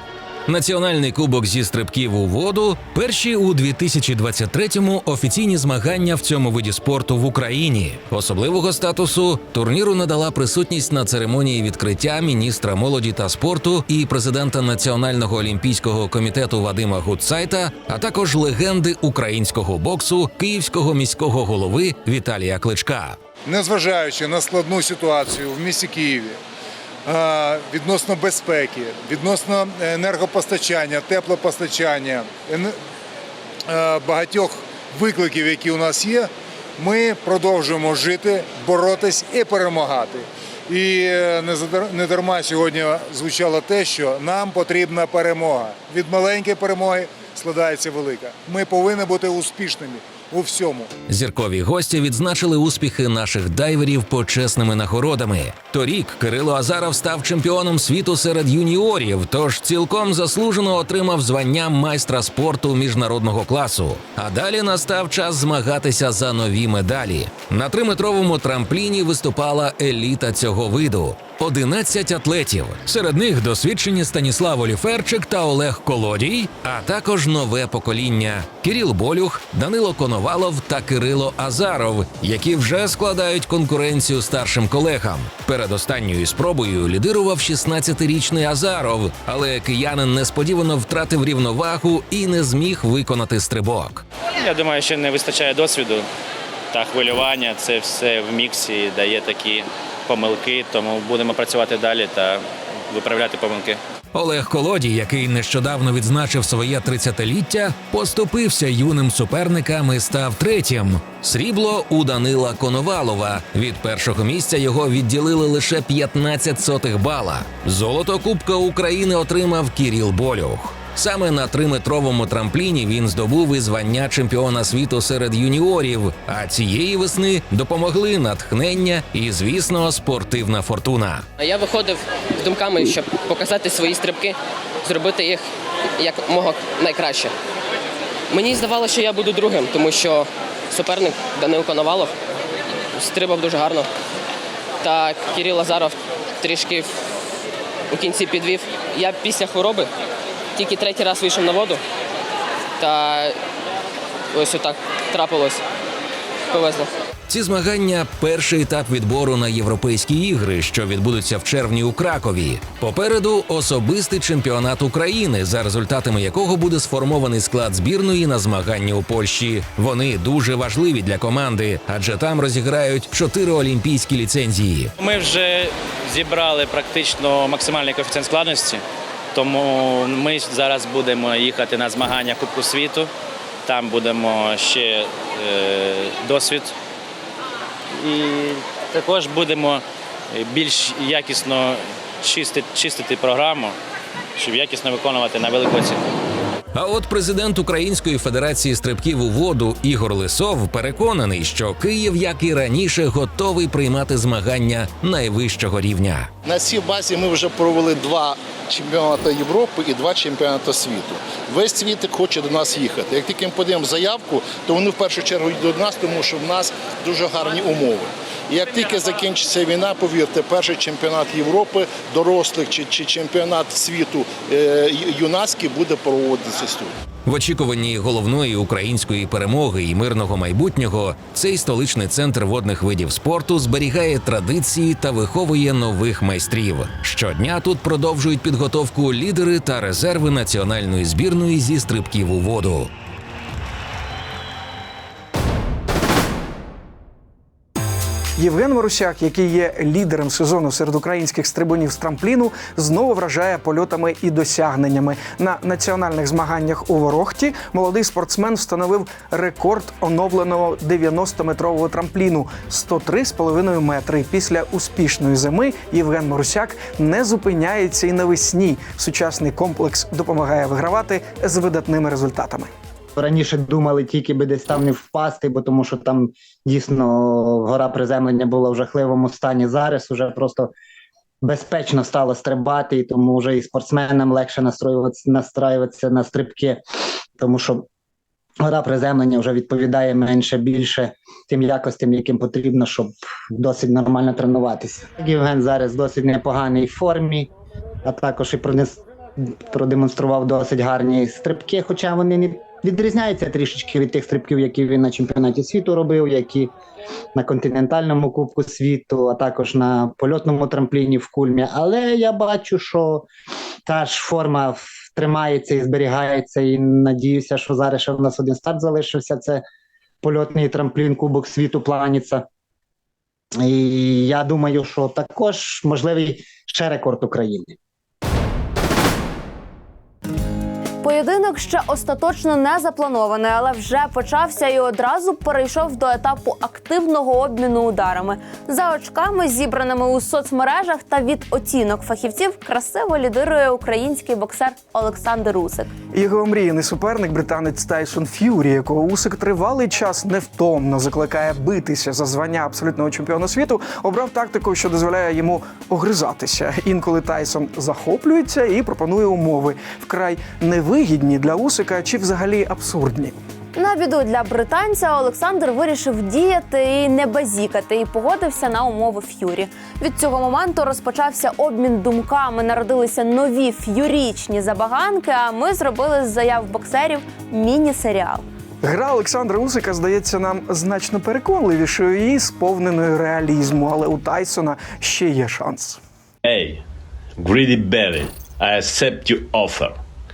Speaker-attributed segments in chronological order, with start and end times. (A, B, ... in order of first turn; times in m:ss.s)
0:00.5-0:23.2 A
0:23.5-0:26.4 B
0:27.0-0:32.8 B
0:33.7-0:50.9 B
0:51.1-1:34.0 A
1:34.4-1:36.1 C
1:36.7-1:43.8 C
1:44.1-2:11.2 A
2:11.4-2:15.4 D
2:16.0-2:17.3 D
2:18.3-2:22.1 D
2:23.0-2:23.9 D
2:24.8-2:26.9 D
2:27.9-2:29.9 D
2:30.6-2:31.8 D
2:32.8-2:33.4 D
2:34.3-2:35.6 D
2:36.5-2:36.9 D
2:37.3-2:54.9 A
2:55.0-2:58.8 C
2:59.3-3:03.1 C
3:03.6-3:06.7 C
3:07.9-3:13.8 C
3:14.4-3:16.0 C
3:16.7-3:26.3 A
3:26.4-3:46.9 E
3:47.3-4:02.9 A
4:08.4-4:32.7 F
4:33.2-4:40.7 G
4:41.4-4:46.8 G
4:47.4-4:47.9 G
4:48.6-4:57.5 G
4:58.0-5:06.8 G
5:07.4-5:13.3 G
5:13.8-5:19.6 G
5:20.2-5:22.5 G
5:23.6-5:27.8 G
5:31.0-5:45.9 H
5:46.1-6:03.4 F
6:03.8-6:18.5 H
6:18.8-6:26.0 F
6:26.4-6:26.8 I
6:27.4-6:30.0 I